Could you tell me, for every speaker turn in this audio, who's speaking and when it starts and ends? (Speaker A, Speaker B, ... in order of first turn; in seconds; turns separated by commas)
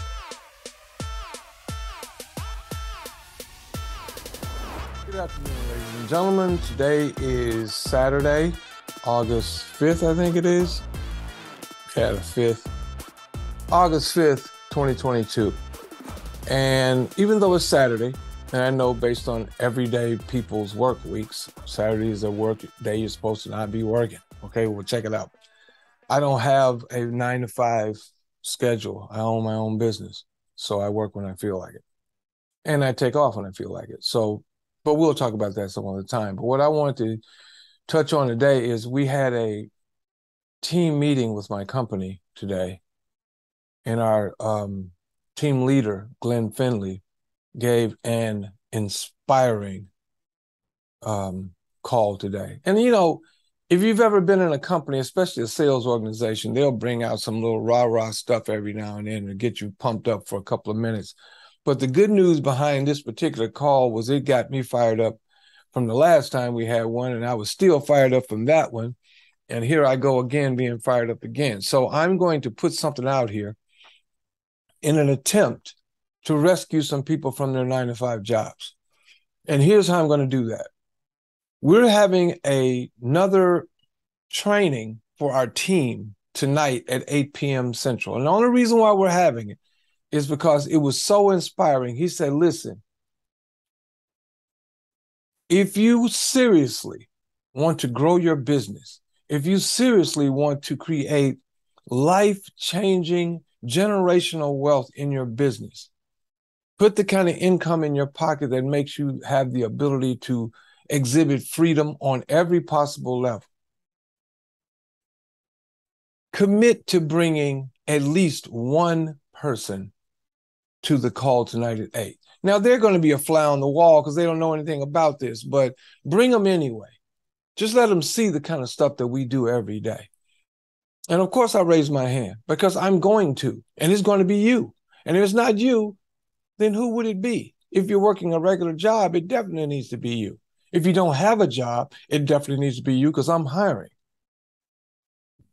Speaker A: 5.0-10.8, Speaker A: 11.9-12.7, Speaker A: 13.7-15.6, Speaker A: 16.5-25.3, Speaker A: 26.1-31.8, Speaker A: 32.6-37.2, Speaker A: 37.9-39.7, Speaker A: 40.6-42.8, Speaker A: 43.8-47.0, Speaker A: 47.5-49.9, Speaker A: 51.0-65.2, Speaker A: 65.7-69.0, Speaker A: 69.5-73.6, Speaker A: 74.8-78.8, Speaker A: 79.5-80.7, Speaker A: 81.6-83.7, Speaker A: 84.3-89.6, Speaker A: 90.1-92.8, Speaker A: 95.5-105.9, Speaker A: 106.8-113.5, Speaker A: 116.3-119.9, Speaker A: 120.8-127.0, Speaker A: 127.5-130.1, Speaker A: 131.1-136.0, Speaker A: 136.6-143.9